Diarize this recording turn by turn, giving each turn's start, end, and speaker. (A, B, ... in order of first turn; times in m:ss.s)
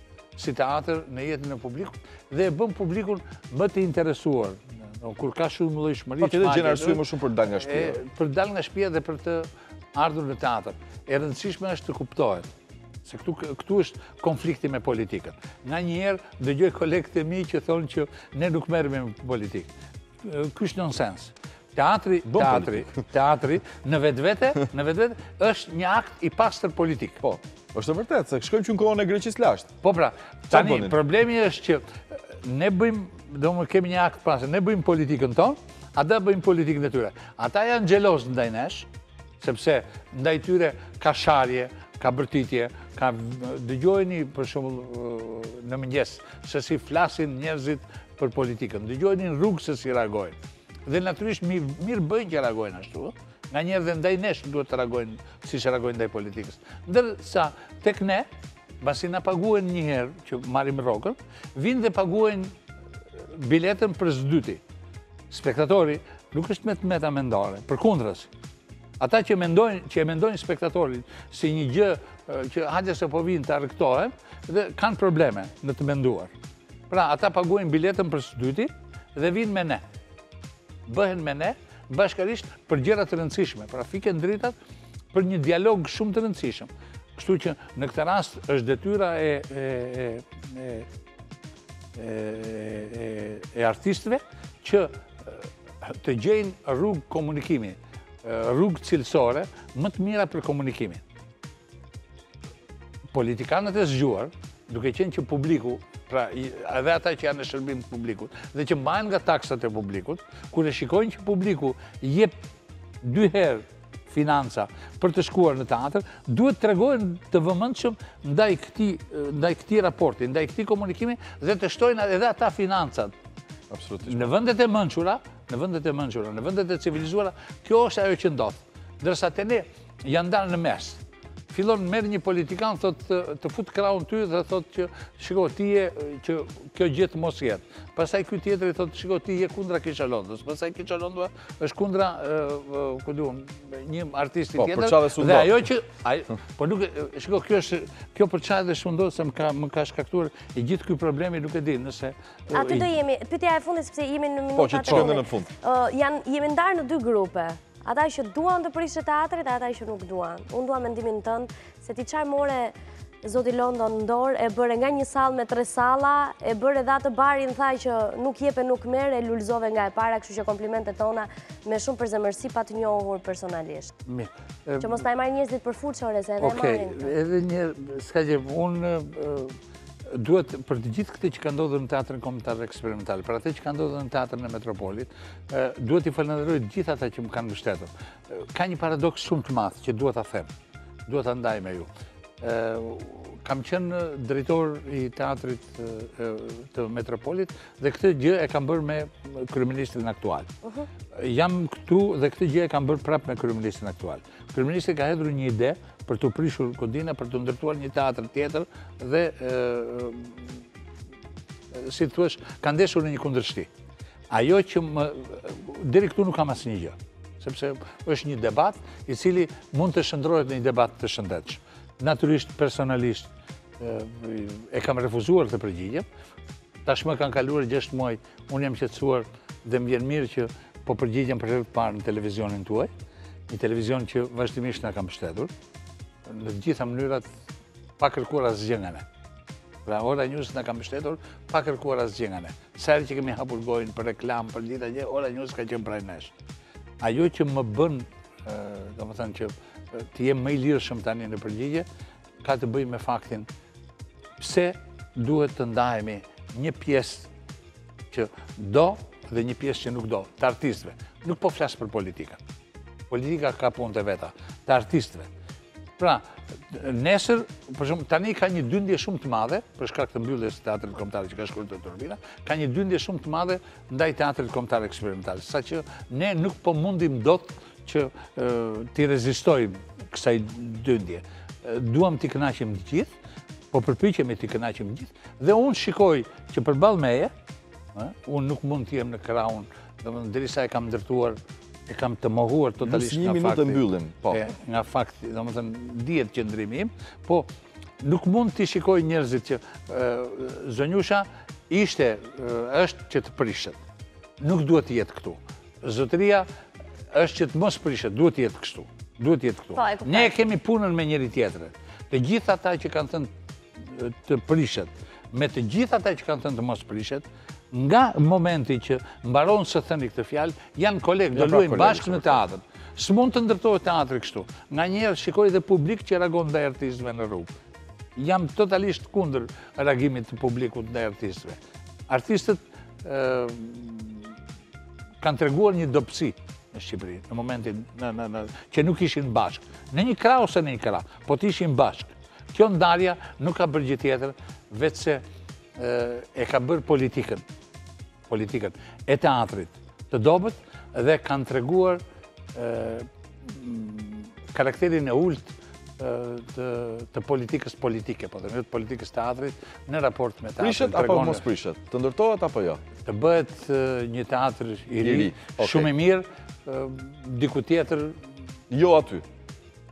0:00.4-0:12.5 A
0:06.2-0:08.0 B
0:13.0-0:19.7 A
0:20.2-0:27.2 A
0:22.3-0:22.9 B
0:27.2-0:29.7 B
0:29.8-0:38.9 A
0:30.5-0:31.0 B
0:39.4-0:58.3 A
0:58.8-1:02.6 A
1:03.1-1:04.6 A
1:05.3-1:08.3 A
1:09.0-1:16.3 A
1:16.9-1:19.8 A
1:20.9-1:24.6 A
1:25.1-1:30.9 A
1:32.0-1:41.0 A
1:43.1-1:52.4 A
1:53.0-2:03.2 A
2:03.7-2:04.3 B
2:04.0-2:32.9 A
2:24.6-2:25.5 B
2:32.5-2:54.0 C
2:34.6-2:35.5 B
2:54.1-2:55.0 A
2:54.8-2:57.1 C
2:56.4-3:10.5 A
3:11.1-3:11.9 A
3:12.4-3:20.5 A
3:21.1-3:30.6 A
3:31.7-3:33.7 A
3:34.3-3:46.0 A
3:46.8-3:52.9 A
3:53.5-3:55.5 A
3:56.2-3:57.4 A
3:58.0-3:59.0 A
3:59.8-4:06.3 A
4:07.0-4:11.9 A
4:12.4-4:13.5 A
4:14.4-4:17.3 A
4:18.1-4:22.4 A
4:23.1-4:25.3 A
4:26.0-4:43.1 A
4:43.7-4:47.3 A
4:48.0-4:57.5 A
4:52.8-4:54.4 B
4:58.0-5:03.8 A
5:04.4-5:06.5 A
5:07.1-5:27.5 A
5:09.8-5:10.3 C
5:21.3-5:22.4 B
5:28.2-5:34.4 A
5:35.2-5:45.2 A
5:45.8-5:47.4 A
5:48.3-5:52.0 A
5:52.6-6:01.5 A
6:00.6-6:02.8 B
6:03.0-6:08.4 A
6:05.0-6:05.9 B
6:08.7-6:09.2 B